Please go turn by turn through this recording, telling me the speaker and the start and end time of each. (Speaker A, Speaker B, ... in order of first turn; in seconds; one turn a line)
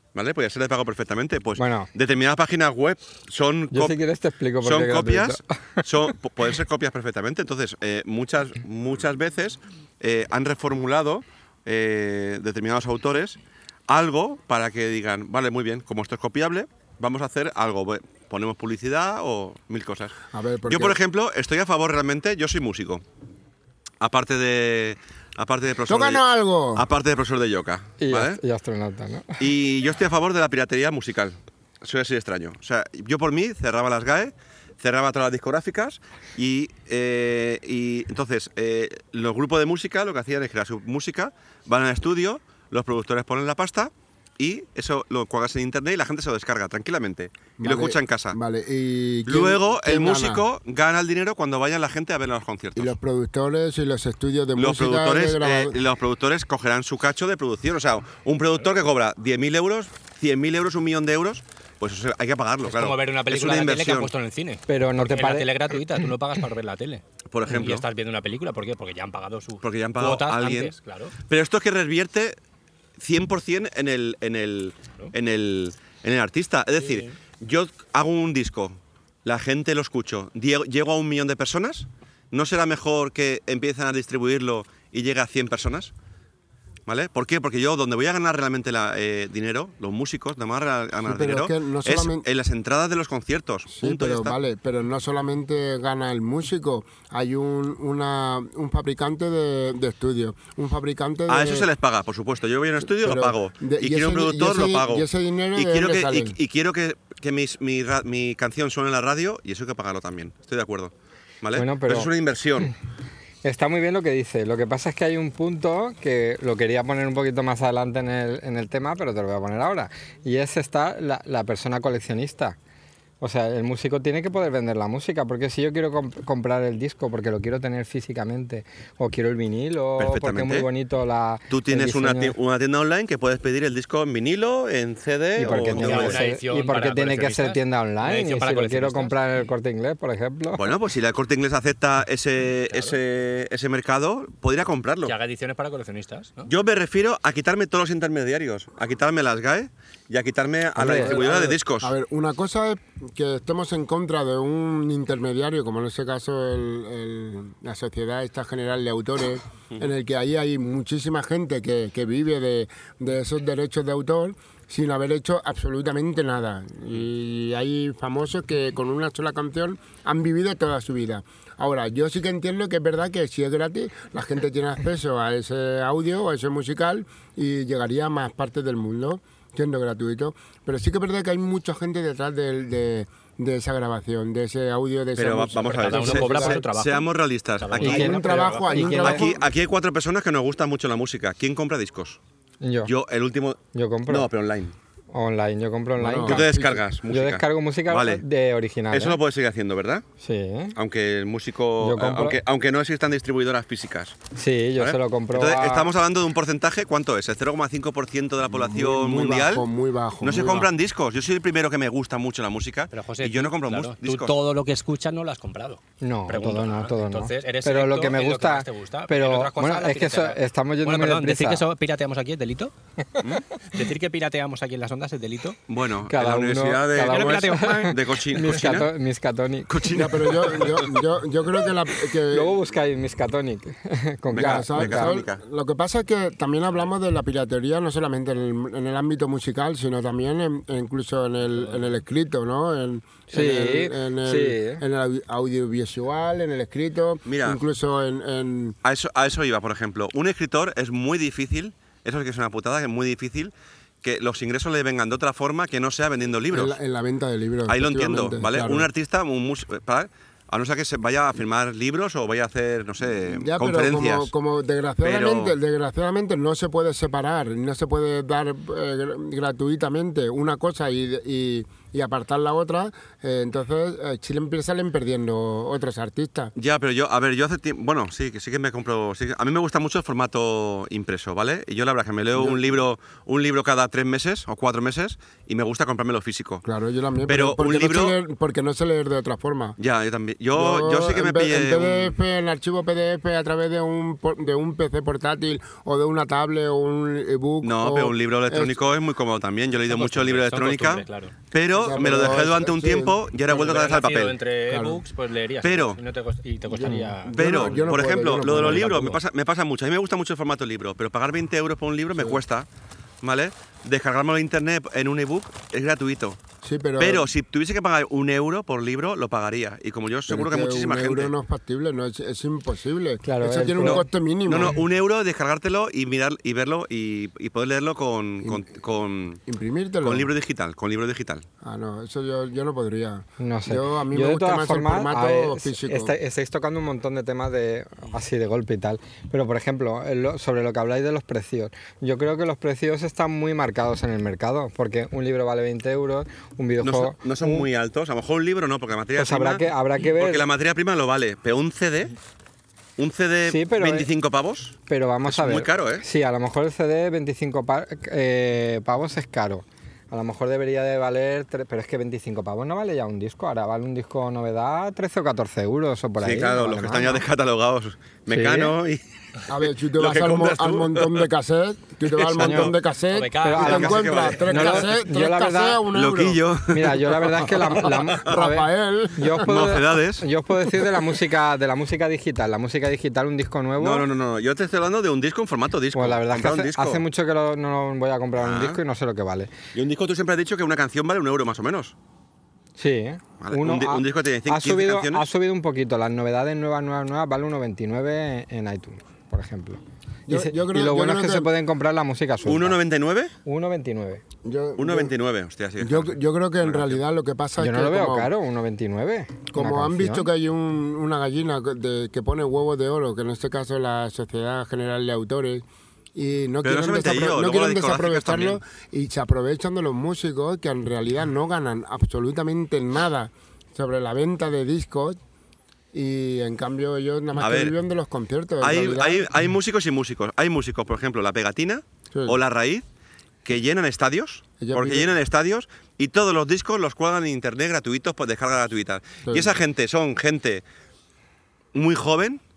Speaker A: 0.1-4.0
Speaker B: 1.6-1.9
Speaker B: 3.7-5.9
Speaker A: 4.6-20.1
Speaker C: 20.3-21.0
Speaker A: 20.7-23.0
Speaker A: 24.0-26.2
Speaker C: 25.9-26.9
Speaker A: 26.8-28.4
Speaker B: 28.0-29.4
Speaker A: 29.4-48.4
Speaker C: 47.6-50.4
Speaker A: 49.3-53.0
Speaker C: 52.8-55.8
Speaker A: 54.6-64.1
Speaker D: 62.6-71.2
Speaker B: 64.7-65.5
Speaker A: 67.3-67.9
Speaker A: 69.6-70.7
Speaker A: 71.3-72.4
Speaker A: 73.0-85.9
Speaker D: 76.8-77.2
Speaker A: 86.9-94.4
Speaker C: 91.0-92.2
Speaker C: 93.7-101.7
Speaker A: 101.3-112.7
Speaker C: 102.9-106.4
Speaker B: 111.5-112.1
Speaker B: 113.4-122.6
Speaker B: 123.2-132.3
Speaker A: 130.0-130.7
Speaker A: 131.5-136.2
Speaker B: 135.4-140.8
Speaker D: 135.5-139.2
Speaker A: 140.6-145.1
Speaker D: 142.7-143.0
Speaker D: 145.1-146.5
Speaker A: 146.5-151.9
Speaker B: 150.8-151.2
Speaker C: 150.9-186.6
Speaker A: 185.2-188.1
Speaker D: 185.7-189.1
Speaker C: 187.8-189.5
Speaker B: 187.8-189.3
Speaker A: 189.0-192.2
Speaker B: 192.6-192.9
Speaker A: 192.8-194.8
Speaker B: 193.7-194.3
Speaker B: 195.1-196.6
Speaker C: 196.0-196.8
Speaker A: 196.2-198.2
Speaker B: 197.1-199.2
Speaker A: 198.9-200.0
Speaker B: 200.2-200.8
Speaker A: 200.8-204.2
Speaker B: 201.8-202.4
Speaker B: 204.3-205.9
Speaker A: 204.8-209.7
Speaker C: 208.5-210.7
Speaker A: 210.2-214.3
Speaker D: 212.9-222.7
Speaker B: 216.0-221.6
Speaker D: 223.7-225.6
Speaker A: 225.7-228.9
Speaker B: 226.1-229.8
Speaker D: 227.0-228.0
Speaker A: 229.7-231.0
Speaker C: 229.9-232.6
Speaker B: 232.3-235.1
Speaker A: 234.3-235.4
Speaker C: 234.3-248.8
Speaker B: 243.3-244.8
Speaker A: 247.3-247.6
Speaker A: 248.8-256.8
Speaker C: 256.5-258.9
Speaker A: 257.7-264.3
Speaker C: 263.3-276.5
Speaker A: 265.0-265.5
Speaker A: 276.6-286.6
Speaker C: 282.4-282.7
Speaker C: 286.6-289.8
Speaker A: 287.3-288.2
Speaker A: 289.8-292.1
Speaker C: 290.5-298.8
Speaker A: 297.6-304.4
Speaker D: 299.9-301.3
Speaker C: 301.8-303.2
Speaker D: 303.5-309.2
Speaker C: 304.7-305.0
Speaker A: 305.6-306.0
Speaker C: 306.7-309.2
Speaker B: 306.9-307.1
Speaker A: 307.3-312.7
Speaker C: 312.1-312.4
Speaker A: 313.2-316.4
Speaker C: 316.6-317.3
Speaker A: 317.0-321.3
Speaker C: 320.3-324.8
Speaker B: 323.2-324.1
Speaker A: 323.8-329.4
Speaker C: 329.5-330.3
Speaker A: 330.0-331.4
Speaker C: 331.6-336.1
Speaker B: 333.4-347.7
Speaker A: 346.8-352.1
Speaker B: 349.2-350.5
Speaker A: 353.0-356.1
Speaker B: 353.5-354.1
Speaker B: 354.9-367.2
Speaker A: 366.2-369.0
Speaker B: 368.3-368.8
Speaker C: 369.5-376.4
Speaker A: 369.9-371.3
Speaker A: 372.1-372.7
Speaker B: 372.4-372.7
Speaker D: 373.1-374.7
Speaker B: 373.4-375.8
Speaker A: 373.6-374.8
Speaker A: 375.9-378.3
Speaker B: 376.7-384.1
Speaker C: 377.6-379.8
Speaker A: 379.4-380.3
Speaker A: 383.8-387.1
Speaker B: 385.9-389.5
Speaker A: 388.4-388.8
Speaker A: 389.7-391.9
Speaker B: 392.8-402.8
Speaker A: 393.4-395.3
Speaker C: 400.3-401.5
Speaker A: 402.4-403.3
Speaker B: 403.4-404.2
Speaker C: 404.4-405.1
Speaker A: 404.8-407.0
Speaker C: 405.8-408.3
Speaker B: 407.6-410.3
Speaker C: 409.5-415.6
Speaker C: 416.1-425.2
Speaker A: 416.6-418.6
Speaker C: 425.9-429.3
Speaker A: 427.4-427.7
Speaker A: 428.6-432.9
Speaker A: 433.4-440.6
Speaker C: 434.6-435.1
Speaker C: 439.2-439.6
Speaker A: 441.7-442.4